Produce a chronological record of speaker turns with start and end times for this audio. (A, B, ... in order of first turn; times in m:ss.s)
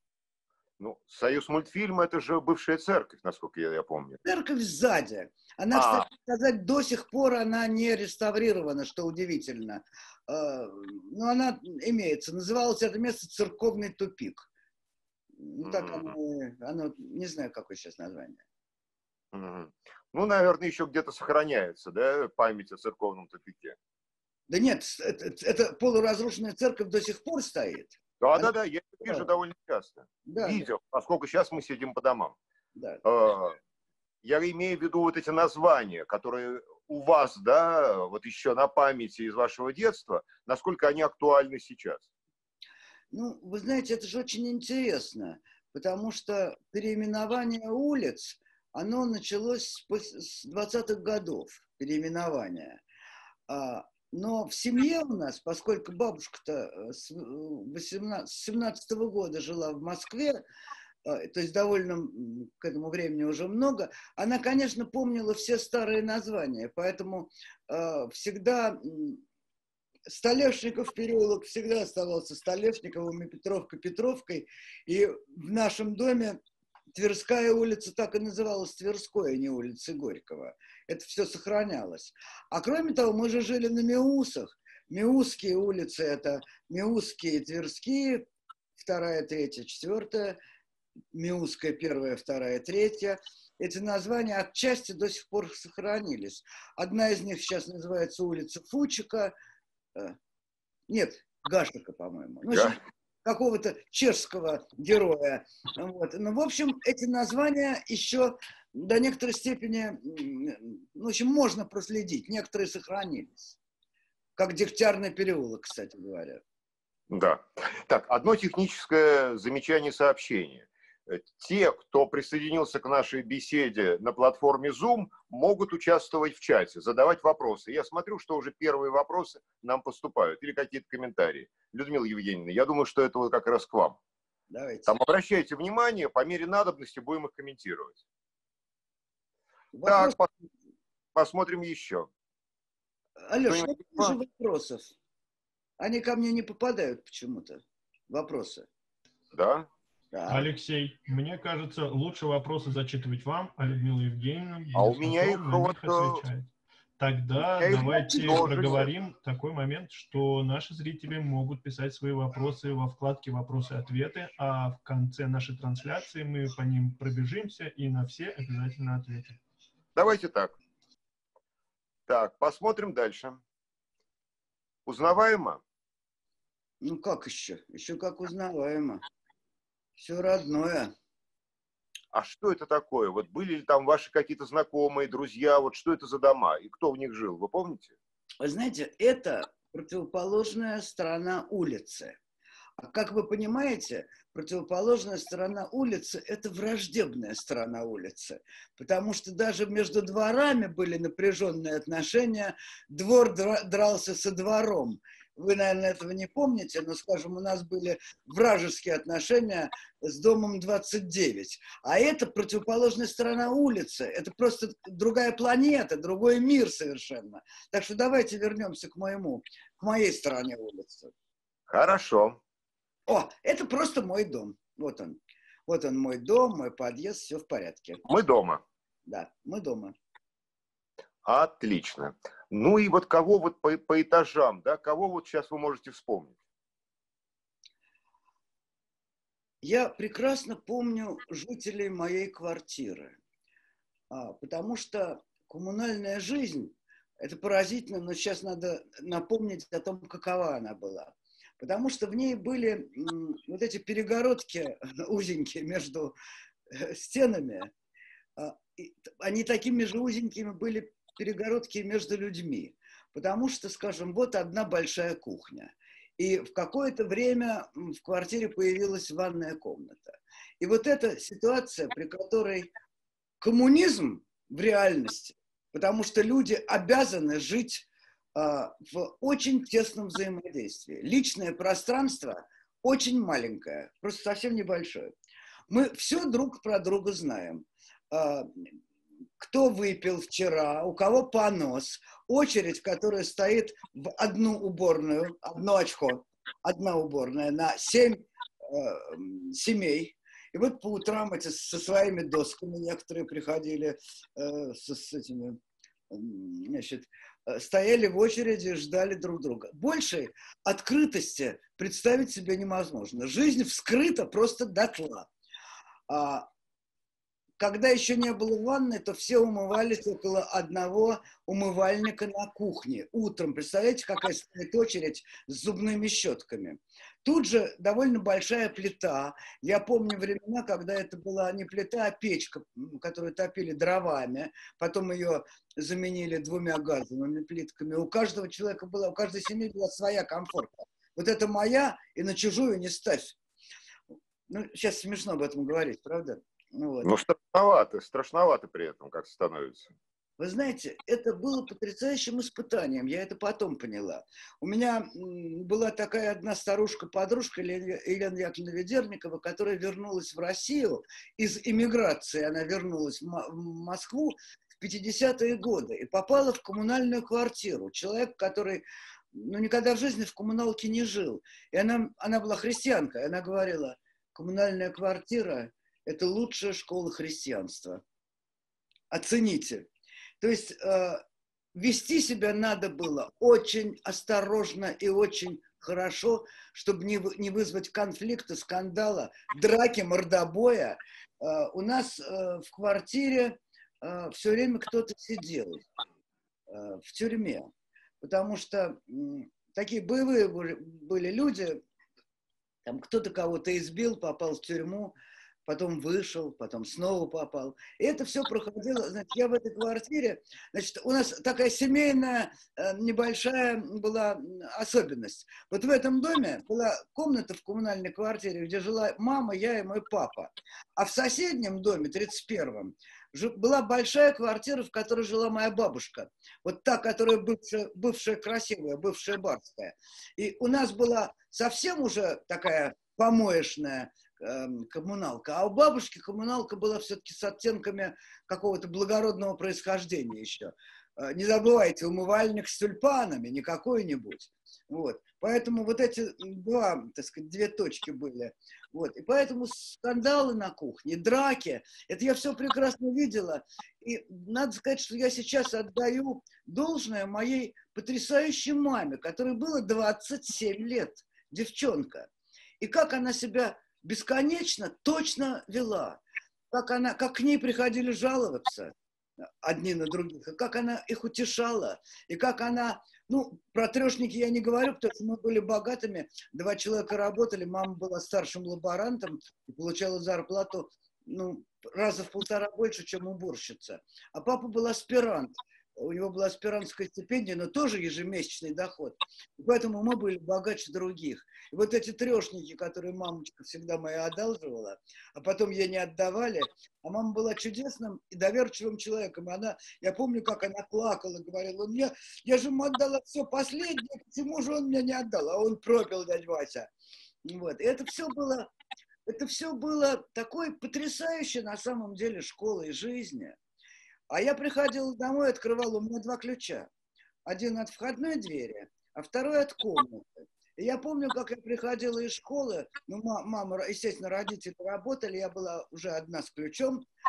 0:00.8-0:04.2 A
0:04.2-0:14.5 B
0:05.7-0:06.0 A
0:15.4-0:18.4 B
0:15.6-0:16.1 A
0:19.3-0:23.8 A
0:24.5-0:28.5 B
0:28.2-0:32.4 A
0:29.0-0:29.3 B
0:30.2-0:30.7 B
0:32.8-0:33.0 B
0:33.0-0:33.6 A
0:34.2-0:42.0 A
0:43.1-0:52.8 B
0:53.5-1:00.4 B
1:01.0-1:09.2 B
1:10.1-1:16.4 B
1:16.9-1:30.4 B
1:31.1-1:39.3 B
1:40.9-1:53.6 B
1:42.5-1:42.8 A
1:54.4-1:56.4 B
1:57.1-2:14.0 A
2:14.5-2:14.9 B
2:14.9-2:18.0 A
2:19.7-2:20.2 B
2:19.8-2:20.3 A
2:21.1-2:22.1 A
2:23.2-2:24.9 B
2:23.4-2:24.2 A
2:25.8-2:28.7 B
2:29.3-2:29.7 A
2:30.1-2:30.5 B
2:30.3-2:49.4 C
2:34.7-2:36.2 A
2:37.4-2:38.9 A
2:38.0-2:38.8 B
2:49.9-2:50.5 A
2:52.1-2:53.4 A
2:54.8-2:55.6 A
2:56.8-2:59.0 B
3:00.0-3:00.9 B
3:02.1-3:07.9 A
3:08.4-3:12.2 B
3:12.8-3:41.1 B
3:41.7-3:42.4 A
3:43.1-3:48.0 B
3:48.0-3:48.6 A
3:49.1-3:49.9 B
3:51.2-3:56.4 A
3:59.6-4:03.2 B
4:04.1-4:16.2 B
4:16.7-4:17.7 B
4:18.4-4:32.7 B
4:33.4-4:45.1 B
4:45.7-4:48.7 B
4:49.4-5:05.6 B
5:06.1-5:15.3 B
5:16.1-5:16.5 B
5:17.6-5:43.4 B
5:44.5-5:47.1 B
5:47.0-5:49.9 A
5:50.4-6:18.0 B
6:19.1-6:19.9 B
6:20.4-6:21.2 B
6:21.7-6:35.9 B
6:36.7-6:41.8 B
6:42.8-7:42.3 B
7:42.8-7:46.2 B
7:46.7-7:48.9 B
7:49.6-8:26.9 B
8:27.4-8:28.7 B
8:29.3-8:33.6 B
8:34.3-8:36.9 B
8:37.4-8:47.0 B